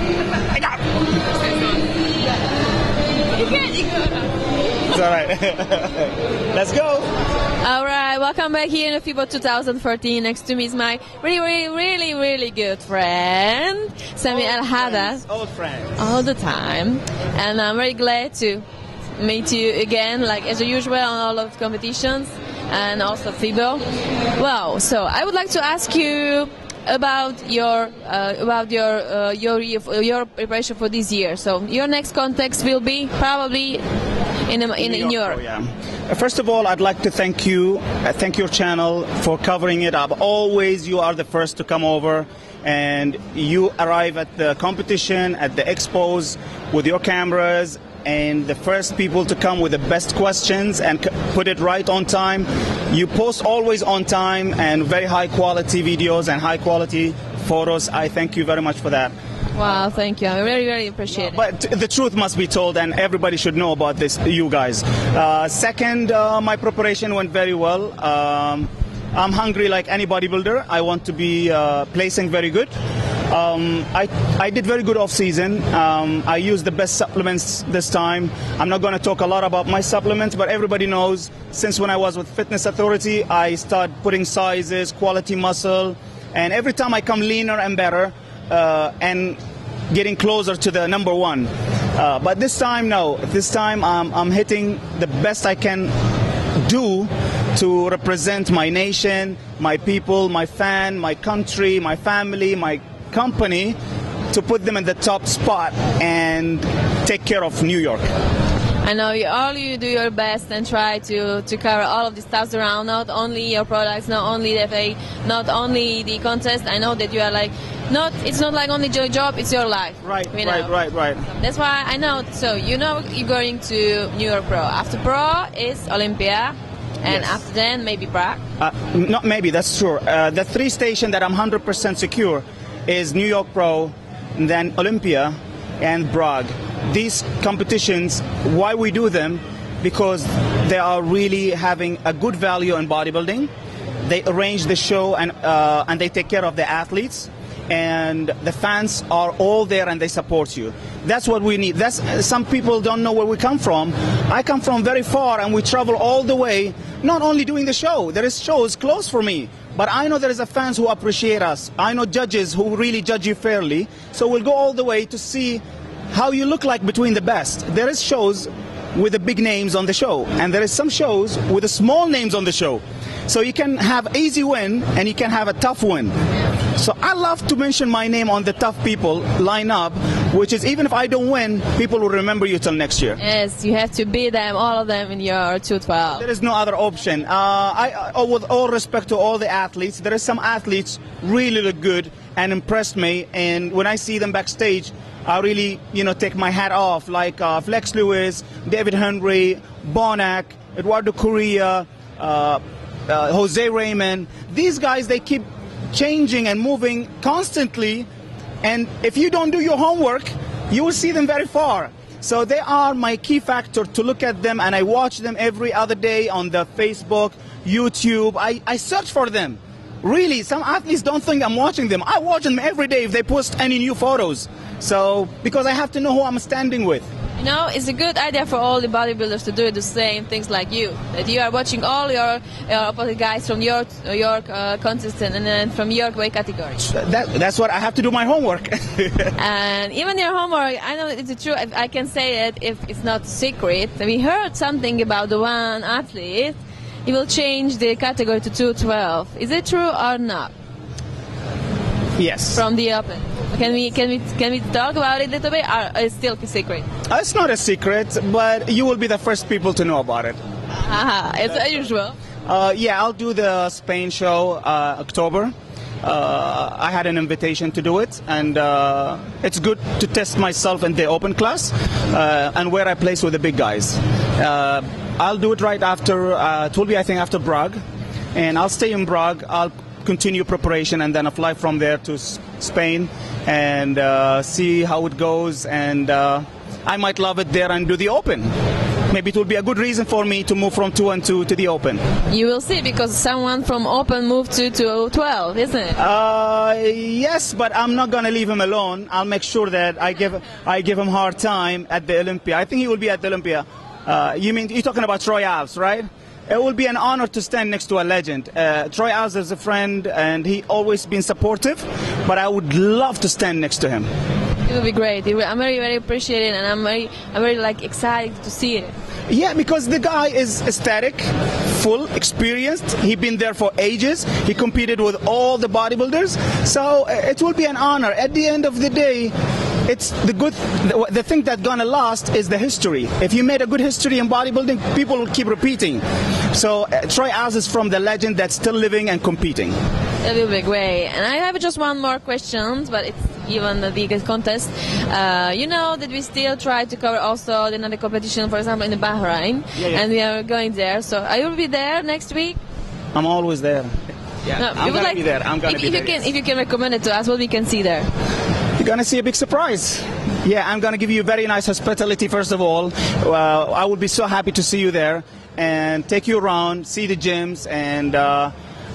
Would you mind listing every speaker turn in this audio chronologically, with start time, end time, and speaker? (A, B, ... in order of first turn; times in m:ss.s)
0:00.5-0:00.8 A
0:04.9-0:07.1 A
0:07.6-0:15.2 B
0:14.3-0:16.0 A
0:16.0-0:18.6 B
0:19.2-0:33.8 B
0:34.5-0:35.4 B
0:34.8-0:59.1 A
0:59.6-1:01.4 B
1:01.1-1:12.7 A
1:13.3-1:29.4 A
1:29.9-1:35.9 A
1:36.6-1:43.8 A
1:44.3-1:48.1 A
1:48.8-2:00.7 B
2:00.0-2:01.3 A
2:01.2-2:08.4 B
2:07.0-2:07.3 A
2:08.6-2:23.5 A
2:24.0-2:56.1 A
2:56.8-3:03.2 A
3:03.2-3:06.2 B
3:06.1-3:28.1 A
3:28.6-3:47.1 A
3:47.4-3:56.9 B
3:56.8-3:59.3 A
3:59.4-4:10.5 B
4:12.2-4:12.6 A
4:12.5-4:16.8 B
4:17.1-4:20.4 A
4:20.8-4:22.1 B
4:22.4-4:37.8 A
4:38.3-4:48.5 A
4:49.1-4:52.0 A
4:52.3-4:56.0 B
4:56.0-5:14.1 A
5:14.6-5:18.9 B
5:19.3-5:29.3 A
5:29.8-5:39.8 A
5:40.2-5:52.6 B
5:49.8-5:50.0 A
5:53.1-5:53.9 A
5:54.4-5:56.3 A
5:54.6-5:58.1 B
5:58.8-6:08.5 A